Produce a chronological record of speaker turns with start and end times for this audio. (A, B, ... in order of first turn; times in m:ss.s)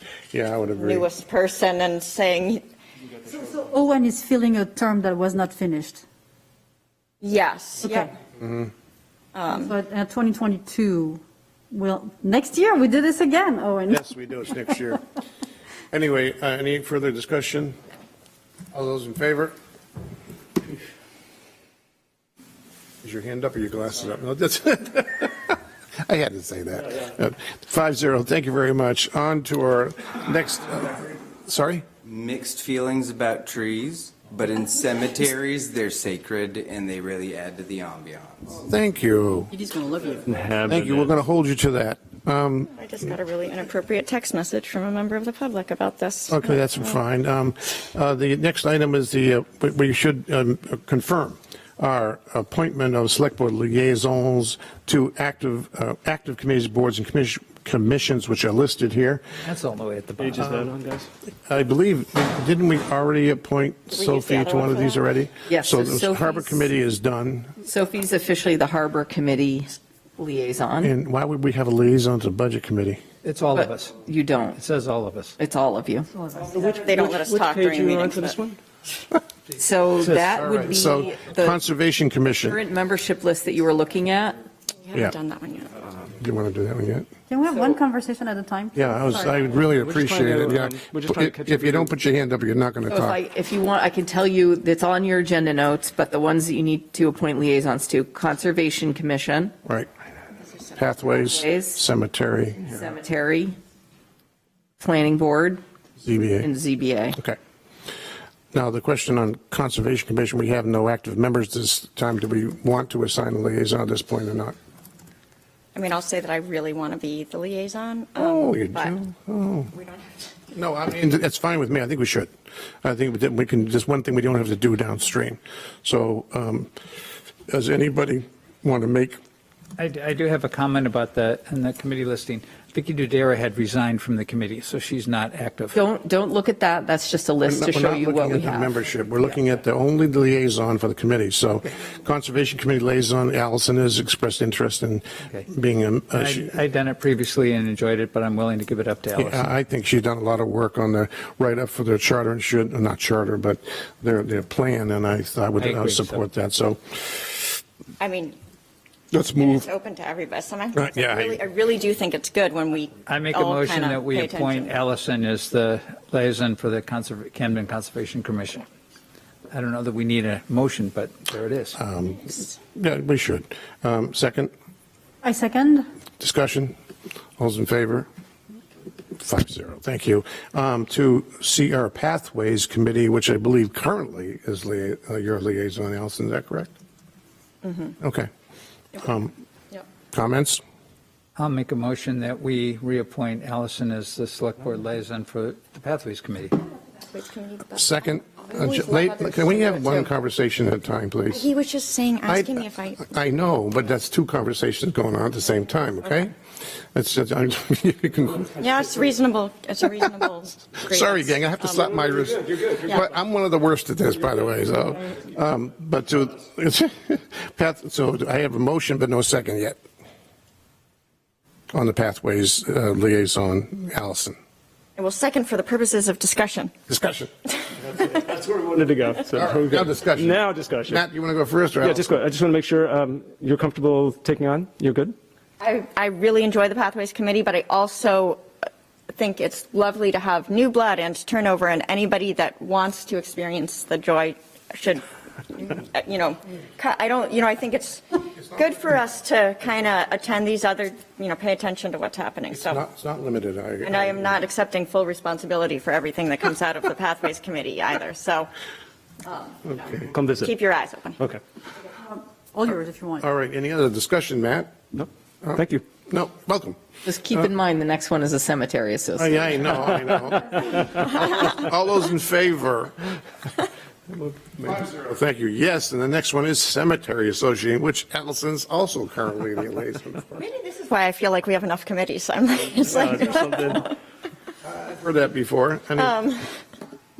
0:00.3-0:01.1 A
0:00.8-0:02.6 B
0:03.2-0:06.0 C
0:07.2-0:08.1 B
0:07.8-0:08.1 C
0:08.4-0:08.7 A
0:09.3-0:09.7 B
0:09.5-0:11.2 C
0:11.7-0:14.0 C
0:13.9-0:15.0 A
0:15.9-0:17.8 A
0:18.7-0:19.5 A
0:23.0-0:31.8 A
0:32.0-0:38.5 D
0:38.6-0:39.5 A
0:39.5-0:40.3 C
0:40.3-0:41.1 E
0:40.7-0:42.7 A
0:42.7-0:47.0 B
0:46.3-0:59.2 A
0:59.4-1:00.5 F
1:00.2-1:01.1 E
1:00.4-1:00.7 A
1:01.4-1:07.6 A
1:03.9-1:05.0 B
1:05.5-1:06.7 G
1:07.6-1:10.9 G
1:10.8-1:13.0 A
1:13.2-1:14.0 F
1:13.5-1:14.6 G
1:14.6-1:15.4 F
1:15.4-1:16.1 G
1:16.4-1:18.6 E
1:16.7-1:18.4 B
1:19.6-1:21.6 G
1:20.1-1:22.6 A
1:22.4-1:24.4 G
1:24.8-1:25.7 B
1:26.1-1:27.1 A
1:27.3-1:29.4 C
1:28.7-1:33.2 A
1:29.8-1:31.9 E
1:32.9-1:39.5 G
1:40.7-1:42.8 A
1:41.1-1:41.8 G
1:42.7-1:43.6 G
1:44.8-1:45.6 G
1:46.0-1:46.5 A
1:46.4-1:47.2 G
1:48.5-1:54.5 A
1:55.7-1:59.0 B
1:58.2-1:59.7 A
1:59.7-2:00.3 B
2:00.5-2:02.3 A
2:02.8-2:06.7 A
2:07.5-2:09.2 A
2:09.8-2:15.8 F
2:15.7-2:18.7 G
2:17.4-2:26.5 A
2:26.1-2:29.5 F
2:29.1-2:37.6 A
2:35.6-2:36.2 F
2:38.0-2:38.4 B
2:39.1-2:39.7 A
2:39.4-2:44.8 B
2:40.7-2:41.4 A
2:43.1-2:48.6 F
2:49.5-2:51.8 F
2:51.8-2:54.5 A
2:55.2-2:55.8 C
2:56.2-2:56.7 A
2:57.4-2:58.1 A
2:59.2-3:06.7 A
3:07.6-3:07.9 B
3:08.0-3:08.3 A
3:09.0-3:09.3 A
3:10.1-3:10.6 A
3:11.4-3:16.5 F
3:17.0-3:20.1 B
3:17.8-3:21.5 A
3:21.3-3:23.0 B
3:22.3-3:26.3 A
3:26.9-3:28.5 A
3:28.6-3:32.1 B
3:30.9-3:39.8 A
3:32.8-3:33.0 B
3:41.7-3:44.4 A
3:45.0-3:46.7 B
3:46.9-3:47.3 A
3:48.0-3:51.0 E
3:49.3-3:52.1 A
3:51.8-3:55.2 E
3:55.6-3:58.4 B
3:59.1-4:12.8 B
4:12.5-4:14.3 A
4:13.8-4:18.5 B
4:19.2-4:19.6 B
4:19.7-4:20.1 A
4:20.1-4:20.5 E
4:20.4-4:21.2 B
4:21.9-4:23.2 C
4:23.2-4:24.7 A
4:24.9-4:25.8 E
4:25.4-4:26.8 A
4:27.0-4:29.6 G
4:29.2-4:33.1 A
4:34.2-4:40.4 A
4:40.4-4:43.9 B
4:42.8-4:43.8 E
4:44.6-4:46.1 A
4:46.0-4:46.5 B